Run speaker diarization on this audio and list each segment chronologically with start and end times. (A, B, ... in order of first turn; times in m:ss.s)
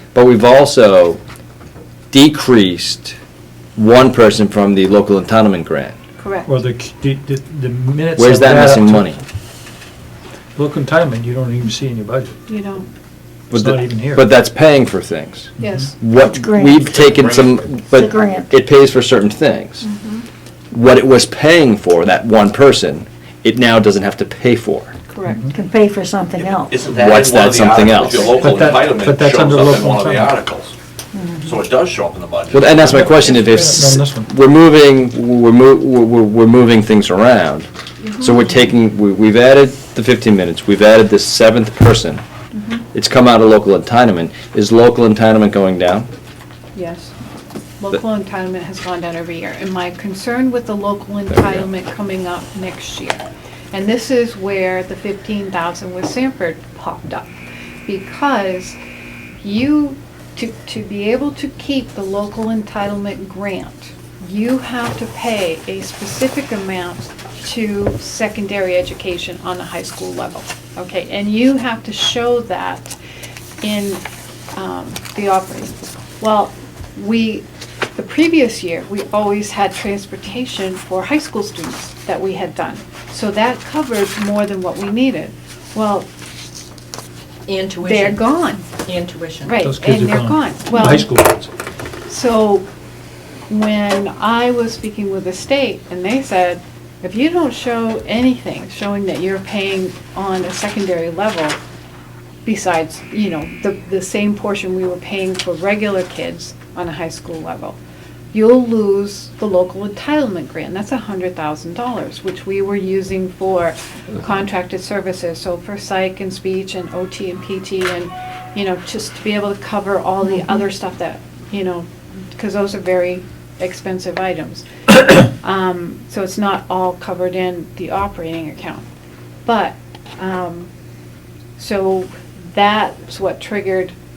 0:00.1-0:01.2 A
0:02.1-0:03.2 A
0:03.8-0:06.0 A
0:06.2-0:06.5 B
0:06.5-0:09.2 C
0:08.2-0:09.2 A
0:10.6-0:12.4 C
0:12.5-0:12.9 B
0:13.5-0:19.8 A
0:13.5-0:14.2 C
0:15.6-0:15.9 C
0:15.6-0:15.9 B
0:16.2-0:16.9 D
0:17.0-0:17.5 E
0:17.9-0:18.5 D
0:19.8-0:20.2 B
0:20.7-0:25.0 A
0:25.1-0:25.4 B
0:25.3-0:25.5 C
0:25.5-0:26.8 D
0:26.7-0:30.7 E
0:26.9-0:28.3 A
0:28.3-0:30.4 C
0:31.1-0:31.5 D
0:31.4-0:33.4 E
0:32.5-0:42.2 A
0:32.8-0:34.3 C
0:38.0-0:38.3 B
0:42.5-0:42.8 B
0:42.9-0:46.1 A
0:46.7-0:47.1 B
0:47.8-0:57.3 B
0:51.3-0:51.7 A
0:57.9-0:58.8 B
0:59.4-1:12.9 B
1:13.6-1:14.0 B
1:14.5-1:26.1 B
1:27.5-1:29.6 F
1:27.8-1:28.8 B
1:29.4-1:31.2 B
1:29.6-1:31.5 C
1:32.1-1:32.7 B
1:33.5-1:41.6 B
1:42.4-1:47.8 B
1:48.3-2:08.8 B
2:09.4-2:10.7 B
2:11.6-2:13.9 B